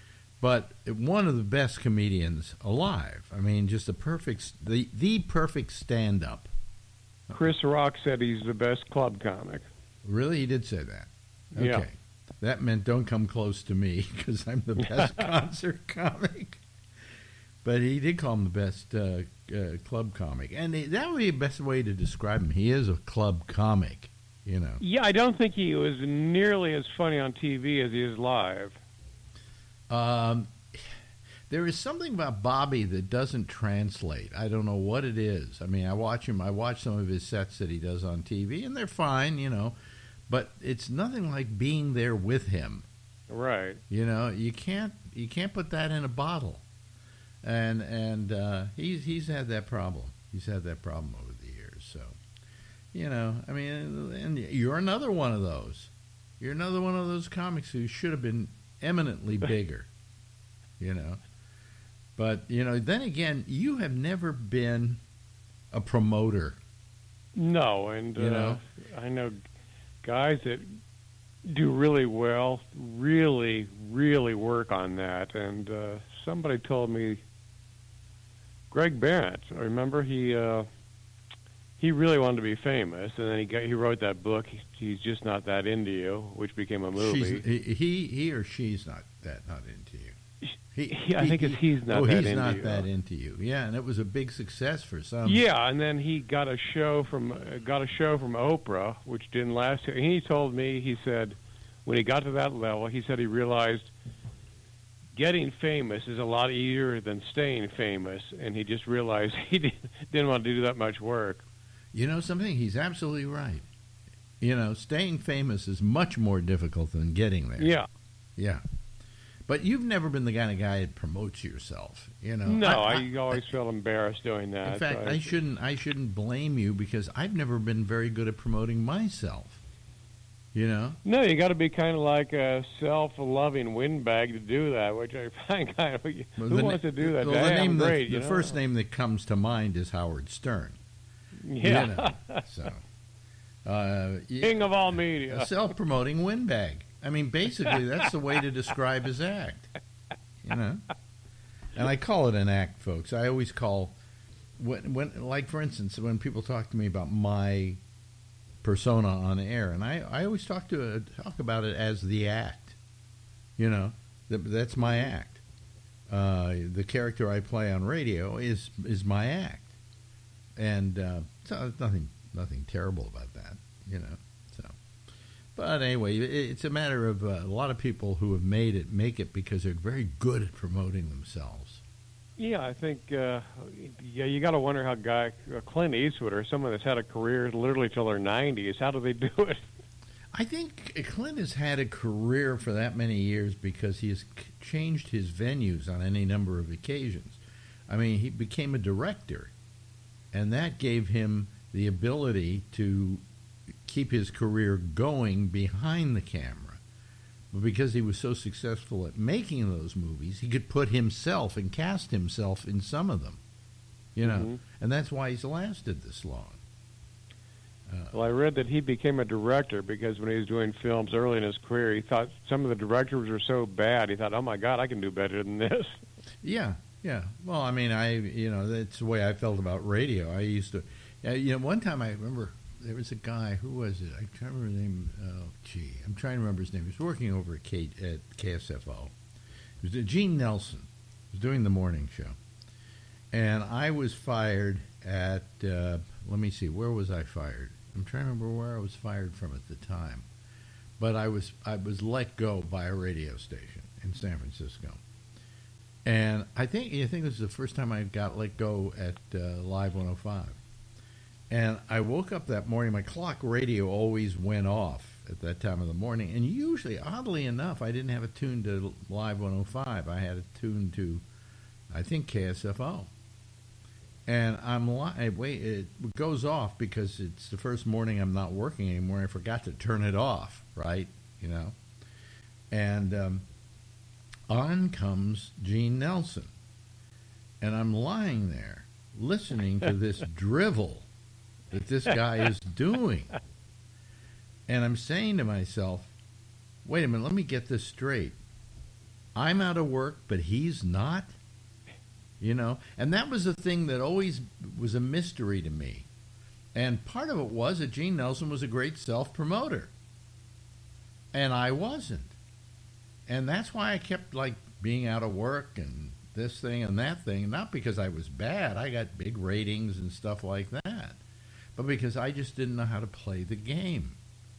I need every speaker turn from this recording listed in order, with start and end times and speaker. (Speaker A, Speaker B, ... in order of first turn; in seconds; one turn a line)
Speaker A: 0.4-6.5
Speaker B: 7.3-9.7
Speaker A: 10.0-16.6
Speaker B: 11.5-11.8
Speaker A: 17.6-24.8
Speaker B: 24.8-28.8
Speaker A: 29.9-30.9
Speaker A: 31.5-39.8
Speaker A: 40.3-42.9
Speaker B: 43.3-43.8
Speaker A: 43.9-46.6
Speaker A: 47.4-52.2
Speaker A: 52.9-59.9
Speaker A: 60.8-61.2
Speaker A: 62.2-65.0
Speaker A: 65.7-66.6
Speaker B: 67.3-69.4
Speaker A: 68.1-68.6
Speaker B: 70.0-70.8
Speaker B: 71.4-77.2
Speaker B: 78.7-80.7
Speaker B: 81.8-87.4
Speaker A: 86.9-90.2
Speaker A: 90.7-95.4
Speaker B: 90.9-92.9
Speaker B: 95.2-103.9
Speaker B: 105.2-111.4
Speaker A: 111.9-113.7
Speaker A: 114.4-117.7
Speaker B: 117.6-117.9
Speaker A: 118.4-118.6
Speaker A: 119.5-123.4
Speaker B: 122.4-125.3
Speaker A: 124.6-129.6
Speaker A: 130.5-131.0
Speaker B: 131.0-138.6
Speaker A: 136.4-140.8
Speaker B: 141.4-142.4
Speaker A: 141.6-142.8
Speaker A: 143.6-149.7
Speaker B: 144.4-145.5
Speaker A: 150.4-150.8
Speaker A: 151.7-154.0
Speaker A: 154.6-157.8
Speaker A: 158.6-162.8
Speaker A: 163.6-165.4
Speaker B: 164.8-165.1
Speaker A: 166.1-169.7
Speaker A: 170.6-174.7
Speaker A: 175.6-181.8
Speaker B: 182.4-189.6
Speaker A: 190.3-199.5
Speaker A: 200.3-203.2
Speaker A: 203.8-206.8
Speaker A: 207.5-213.4
Speaker A: 214.2-216.6
Speaker B: 214.2-214.6
Speaker A: 217.9-218.1
Speaker B: 218.1-226.0
Speaker A: 226.4-239.1
Speaker A: 239.8-242.4
Speaker A: 243.3-250.2
Speaker A: 251.0-255.0
Speaker A: 256.0-260.6
Speaker A: 261.5-271.2
Speaker A: 271.9-273.1
Speaker A: 274.2-281.8
Speaker A: 282.7-283.4
Speaker A: 284.5-286.5
Speaker A: 287.6-291.1
Speaker A: 291.7-293.3
Speaker A: 294.7-296.1
Speaker A: 296.8-298.4
Speaker A: 299.3-301.3
Speaker A: 302.4-306.1
Speaker A: 306.7-309.9
Speaker A: 311.3-312.3
Speaker A: 313.3-321.2
Speaker A: 321.8-324.2